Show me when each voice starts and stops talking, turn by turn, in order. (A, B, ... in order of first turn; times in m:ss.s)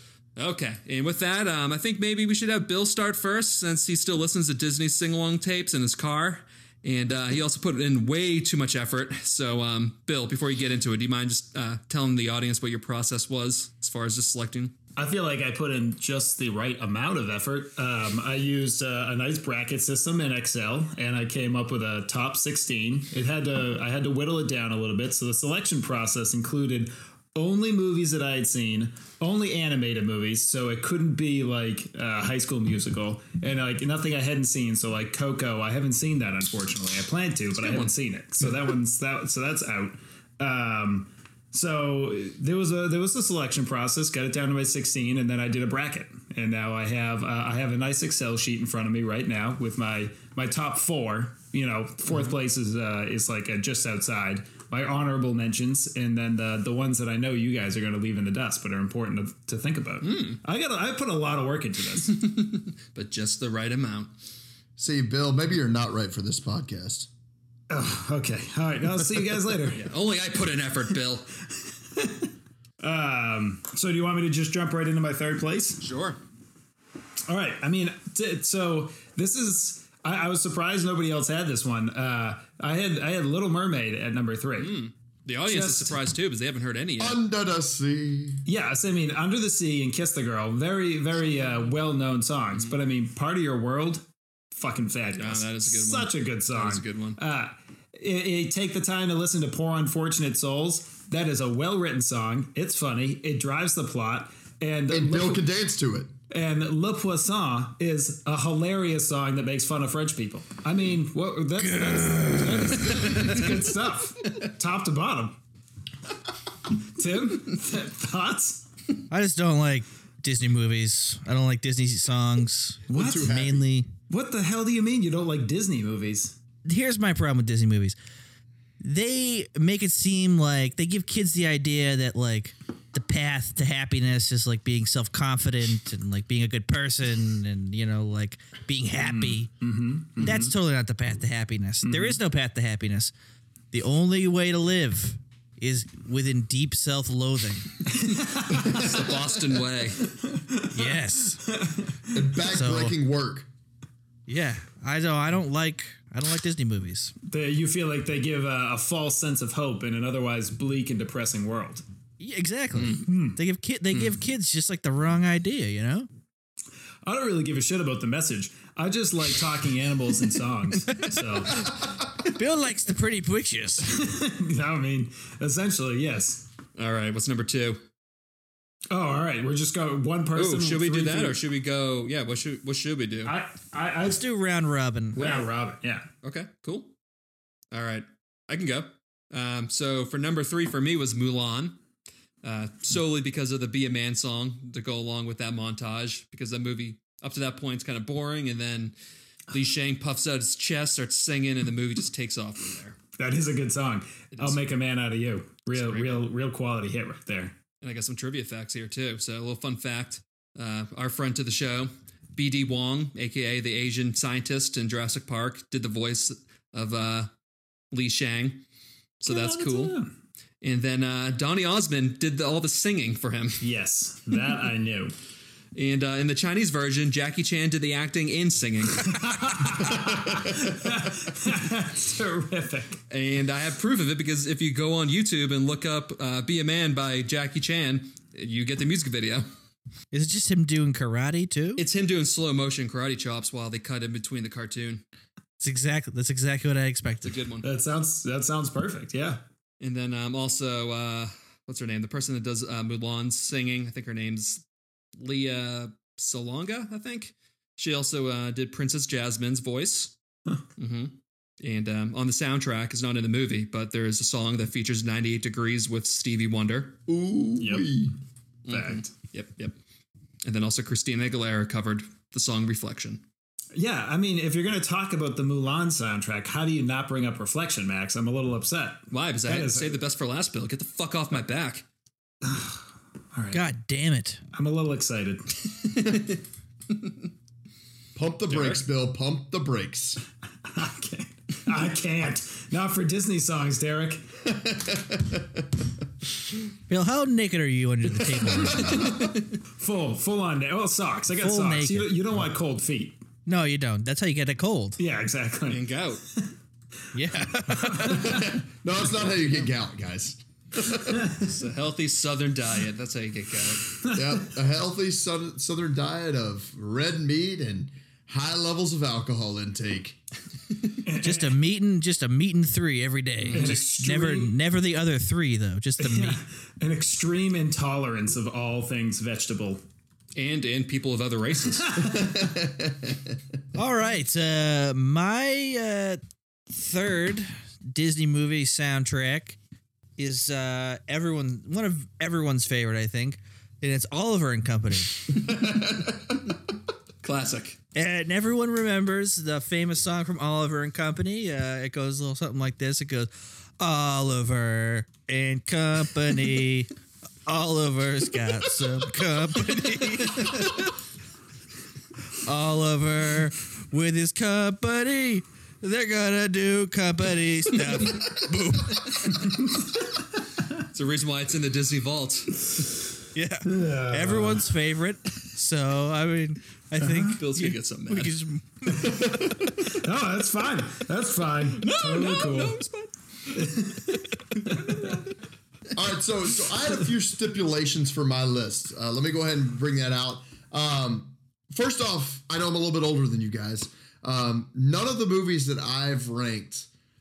0:00.4-0:14.8 A
0:15.0-1:02.2 B
0:37.6-0:37.9 A
1:00.0-1:00.4 A
1:02.1-1:04.1 A
1:04.8-1:07.1 C
1:07.7-1:09.8 B
1:09.7-1:11.3 A
1:11.9-1:12.3 B
1:12.8-1:15.8 B
1:15.8-1:16.2 A
1:17.3-1:24.7 B
1:24.6-1:27.2 A
1:25.5-1:26.0 B
1:27.0-1:28.4 C
1:28.4-1:45.4 B
1:35.2-1:37.2 A
1:44.9-1:46.1 C
1:46.3-1:55.4 B
1:51.7-1:53.1 D
1:56.8-1:58.6 B
1:59.1-2:03.9 D
2:02.9-2:03.3 B
2:02.9-2:03.6 C
2:04.1-2:06.4 B
2:06.6-2:08.0 D
2:08.8-2:19.5 D
2:19.0-2:20.5 B
2:20.2-2:23.1 D
2:21.9-2:22.2 B
2:23.7-2:27.7 D
2:27.9-2:28.8 B
2:28.5-2:30.0 A
2:28.6-2:29.2 C
2:30.1-2:32.2 B
2:30.7-2:31.4 D
2:32.1-2:33.5 C
2:32.5-2:33.0 D
2:34.3-2:37.1 D
2:37.3-2:41.8 B
2:42.2-2:46.1 D
2:42.9-2:43.4 B
2:47.0-2:51.7 B
2:52.2-2:54.0 D
2:53.8-2:56.4 B
2:56.8-2:57.8 A
2:58.9-3:01.4 B
3:00.3-3:03.3 A
3:03.2-3:04.2 B
3:04.0-3:05.3 D
3:05.1-3:06.1 B
3:06.2-3:06.9 A
3:07.7-3:11.8 A
3:12.4-3:19.0 A
3:19.5-3:23.0 A
3:23.2-3:27.5 B
3:24.3-3:24.6 A
3:25.7-3:26.2 A
3:27.8-3:37.3 A
3:37.9-3:38.6 A
3:39.2-3:40.0 A
3:39.3-3:40.1 B
3:40.6-3:43.6 A
3:43.6-3:45.1 B
3:45.7-3:49.9 A
3:49.0-3:53.0 B
3:53.1-3:59.5 A
4:00.1-4:01.8 D
4:01.8-4:05.0 A
4:05.6-4:07.4 D
4:07.2-4:07.6 A
4:07.6-4:09.4 B
4:09.8-4:14.6 A
4:15.2-4:20.1 A
4:20.8-4:27.0 A
4:27.1-4:28.1 C
4:27.6-4:27.9 B
4:28.6-4:29.8 A
4:28.7-4:29.1 B
4:30.4-4:33.2 A
4:33.7-4:40.0 B
4:39.1-4:41.8 A
4:42.4-4:42.8 B
4:43.3-4:43.6 B
4:43.5-4:44.4 D
4:44.5-4:45.5 B
4:45.7-4:46.4 A
4:48.1-4:50.2 C
4:48.5-4:48.8 A
4:50.7-4:54.2 B
4:54.6-4:55.4 C
4:56.9-4:59.2 D
4:58.4-5:03.2 B
5:01.4-5:02.4 D
5:03.4-5:05.0 D
5:05.0-5:05.8 B
5:05.7-5:06.2 A
5:07.1-5:08.5 D
5:07.7-5:08.6 B
5:08.0-5:11.4 C
5:11.4-5:14.0 A
5:14.1-5:20.2 C
5:21.0-5:21.6 B
5:21.2-5:26.4 D
5:23.4-5:23.7 A
5:23.5-5:24.5 B
5:26.0-5:29.8 B
5:30.4-5:32.1 A
5:32.0-5:33.1 C
5:33.7-5:39.6 D
5:40.2-5:45.4 D
5:45.4-5:46.1 C
5:47.2-5:47.8 A
5:47.9-5:56.9 D
5:57.4-6:00.9 D
6:02.4-6:09.5 D
6:10.8-6:12.8 A
6:13.3-6:19.7 D
6:13.6-6:14.7 B
6:17.0-6:17.4 B
6:17.2-6:18.4 A
6:18.9-6:22.8 B
6:21.8-6:23.8 A
6:23.5-6:24.1 B
6:24.5-6:25.3 A
6:25.9-6:36.9 C